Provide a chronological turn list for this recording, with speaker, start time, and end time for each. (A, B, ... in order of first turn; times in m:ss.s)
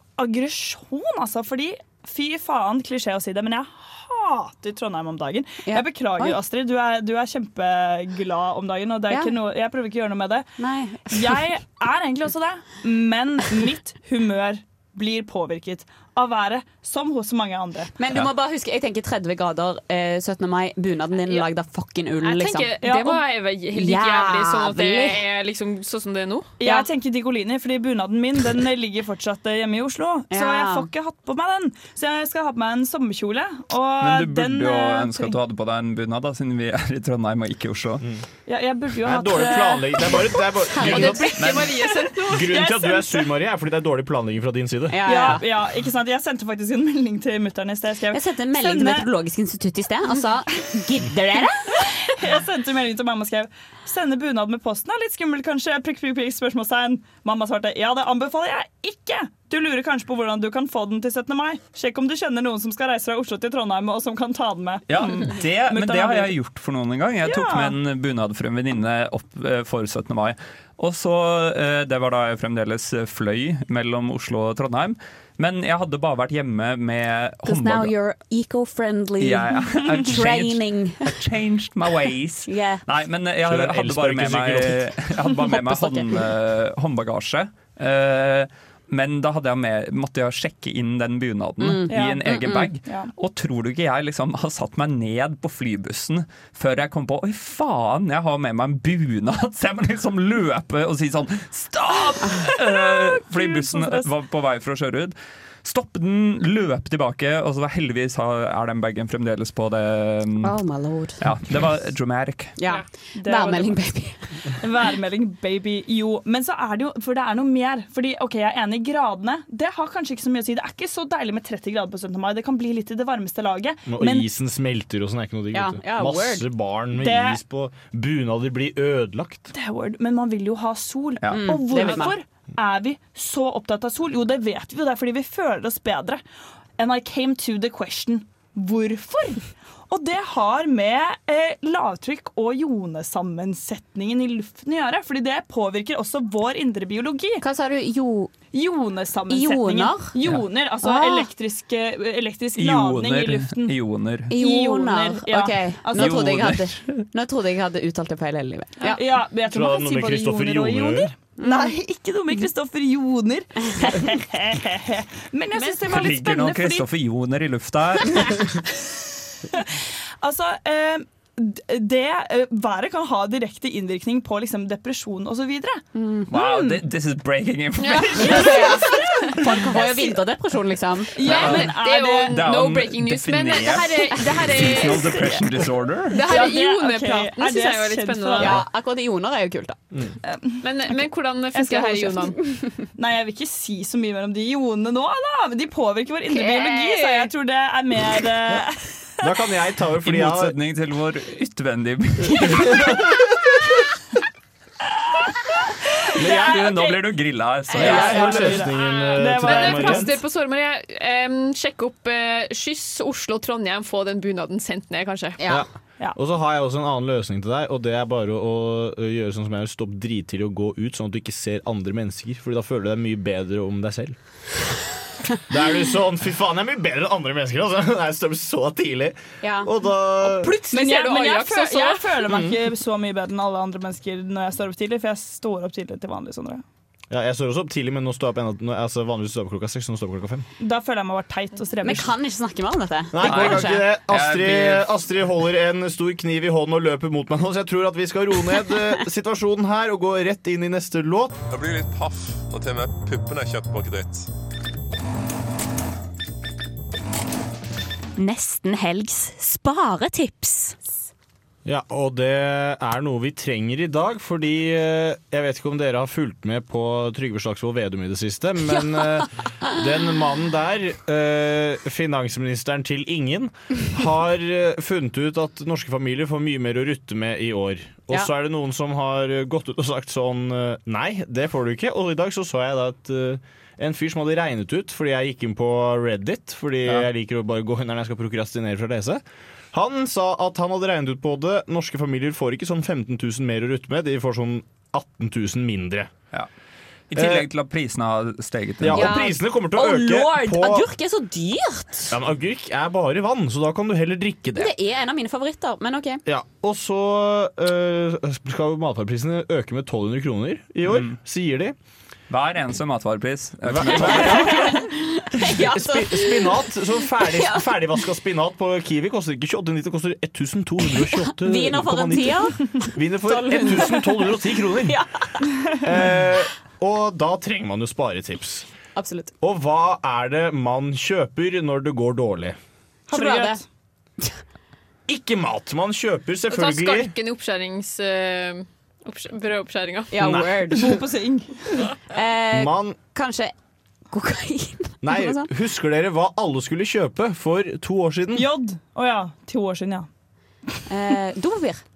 0:00.2-0:10.5 A
0:05.7-0:06.4 B
0:10.6-0:11.4 B
0:11.1-0:17.9 A
0:18.0-0:23.2 B
0:22.2-0:26.5 C
0:22.8-0:23.2 A
0:23.7-0:25.2 B
0:26.6-0:35.4 A
0:30.3-0:30.9 B
0:34.0-0:38.0 D
0:38.5-0:40.2 A
0:39.0-0:41.6 E
0:40.7-0:41.4 B
0:40.8-0:42.4 C
0:41.9-0:43.3 A
0:42.3-0:45.1 E
0:44.9-0:45.5 B
0:45.0-0:49.1 A
0:48.1-0:51.9 B
0:51.8-1:06.3 A
1:04.9-1:17.9 D
1:07.2-1:07.8 A
1:17.5-1:21.1 B
1:19.2-1:50.6 D
1:22.5-1:22.8 B
1:23.4-1:24.9 E
1:25.4-1:26.3 B
1:31.6-1:32.7 B
1:31.9-1:32.3 A
1:32.8-1:33.1 A
1:42.0-1:44.1 A
1:50.4-1:51.2 B
1:51.2-1:52.6 D
1:52.6-1:54.5 B
1:53.2-1:53.8 A
1:54.6-2:04.3 A
2:03.9-2:09.5 E
2:05.5-2:06.5 B
2:07.0-2:07.4 A
2:09.5-2:16.2 A
2:11.3-2:12.2 B
2:16.8-2:27.4 A
2:27.4-2:28.4 B
2:28.5-2:33.8 A
2:29.3-2:30.2 B
2:30.8-2:31.3 B
2:32.6-2:34.3 D
2:34.3-2:39.0 B
2:34.3-2:36.4 A
2:36.0-2:37.0 D
2:38.9-2:46.9 A
2:39.5-2:41.1 E
2:41.4-2:41.8 B
2:45.8-2:48.6 D
2:49.5-2:55.8 A
2:56.0-2:56.3 B
2:56.3-2:58.8 D
2:56.4-2:56.8 A
2:57.8-2:58.3 C
2:58.2-3:01.3 B
2:58.2-3:00.2 A
3:01.1-3:02.5 A
3:01.2-3:05.4 C
3:01.2-3:01.8 D
3:02.3-3:06.2 D
3:06.1-3:08.6 C
3:06.2-3:08.6 A
3:08.4-3:09.8 B
3:10.3-3:11.0 A
3:10.6-3:12.4 C
3:11.6-3:12.0 A
3:11.9-3:12.7 B
3:13.0-3:19.3 A
3:16.3-3:17.3 C
3:19.2-3:20.6 E
3:20.0-3:23.1 D
3:22.5-3:23.2 E
3:26.0-3:27.1 A
3:26.2-3:26.6 E
3:26.3-3:28.5 D
3:27.7-3:30.2 A
3:27.7-3:30.2 E
3:28.9-3:35.4 C
3:35.4-3:35.7 B
3:35.5-3:44.2 E
3:45.5-3:50.6 E
3:49.4-3:49.7 B
3:50.4-3:52.3 C
3:50.6-3:56.6 A
3:52.3-3:52.6 E
3:57.1-4:00.4 E
4:00.6-4:02.1 A
4:01.8-4:03.9 B
4:03.1-4:11.4 E
4:03.2-4:04.9 D
4:11.5-4:14.3 F
4:18.2-4:20.8 B
4:21.6-4:56.1 E
4:28.7-4:29.2 B
4:57.1-4:59.2 D
4:57.2-4:57.5 E
4:58.8-5:00.9 E
4:58.9-5:02.1 B
5:02.1-5:04.7 E
5:04.6-5:06.2 B
5:06.3-5:11.8 E
5:10.9-5:11.2 D
5:12.3-5:14.6 D
5:13.6-5:14.8 E
5:13.9-5:16.6 B
5:15.4-5:25.0 E
5:17.2-5:18.0 B
5:21.0-5:25.1 B
5:25.8-5:28.7 E
5:29.0-5:29.3 B
5:29.4-5:32.6 E
5:33.1-5:33.6 B
5:33.1-5:33.6 A
5:35.1-5:37.1 E
5:36.5-5:40.2 C
5:40.1-5:41.0 B
5:40.2-5:40.8 E
5:40.7-5:41.9 A
5:42.1-5:43.5 B
5:42.5-5:43.0 E
5:44.1-5:45.5 B
5:45.0-5:48.5 E
5:48.4-5:50.1 A
5:50.9-5:51.8 B